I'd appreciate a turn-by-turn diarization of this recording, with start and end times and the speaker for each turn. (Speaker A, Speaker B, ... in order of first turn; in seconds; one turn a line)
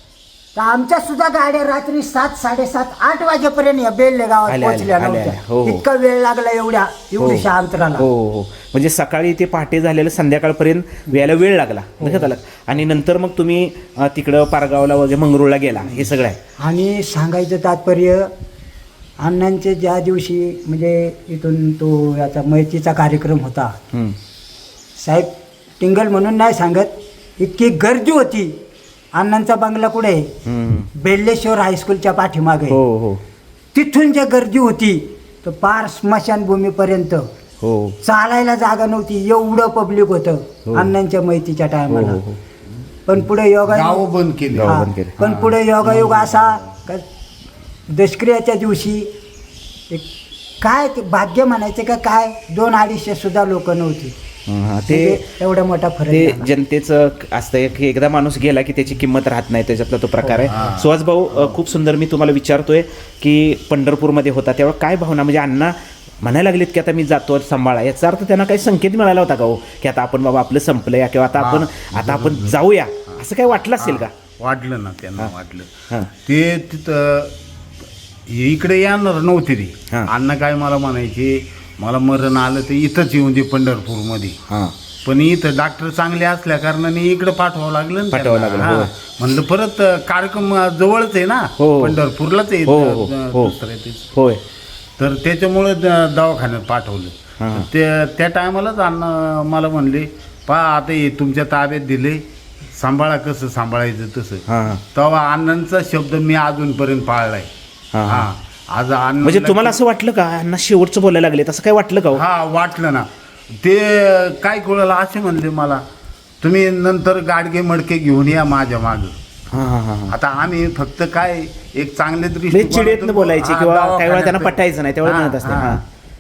Speaker A: 0.6-8.1
Speaker B: 4.5-5.8
Speaker B: 7.2-16.4
Speaker A: 12.0-12.3
Speaker A: 16.6-18.3
Speaker A: 19.2-23.8
Speaker A: 25.0-28.6
Speaker A: 29.2-30.3
Speaker B: 30.5-30.9
Speaker A: 31.0-32.8
Speaker B: 32.7-33.2
Speaker A: 33.7-37.2
Speaker B: 37.6-38.0
Speaker A: 38.0-42.2
Speaker B: 41.9-42.4
Speaker A: 43.1-44.0
Speaker C: 43.6-46.5
Speaker B: 44.5-45.5
Speaker A: 44.6-47.0
Speaker A: 47.9-49.1
Speaker A: 50.6-54.1
Speaker B: 54.5-55.2
Speaker A: 54.9-56.5
Speaker B: 56.1-74.1
Speaker A: 60.2-60.5
Speaker C: 60.5-60.9
Speaker C: 71.4-72.6
Speaker C: 73.8-75.7
Speaker C: 76.2-77.3
Speaker C: 78.3-84.4
Speaker C: 85.0-94.1
Speaker B: 88.1-88.9
Speaker B: 91.6-92.0
Speaker B: 92.7-93.5
Speaker B: 94.2-94.4
Speaker C: 95.0-102.2
Speaker B: 97.4-97.7
Speaker C: 102.8-107.5
Speaker B: 104.5-104.8
Speaker B: 107.9-108.3
Speaker C: 108.1-109.8
Speaker B: 109.2-112.2
Speaker C: 112.1-113.1
Speaker C: 113.6-115.8
Speaker C: 116.4-119.1
Speaker B: 119.5-120.1
Speaker C: 120.1-125.8
Speaker B: 122.5-125.8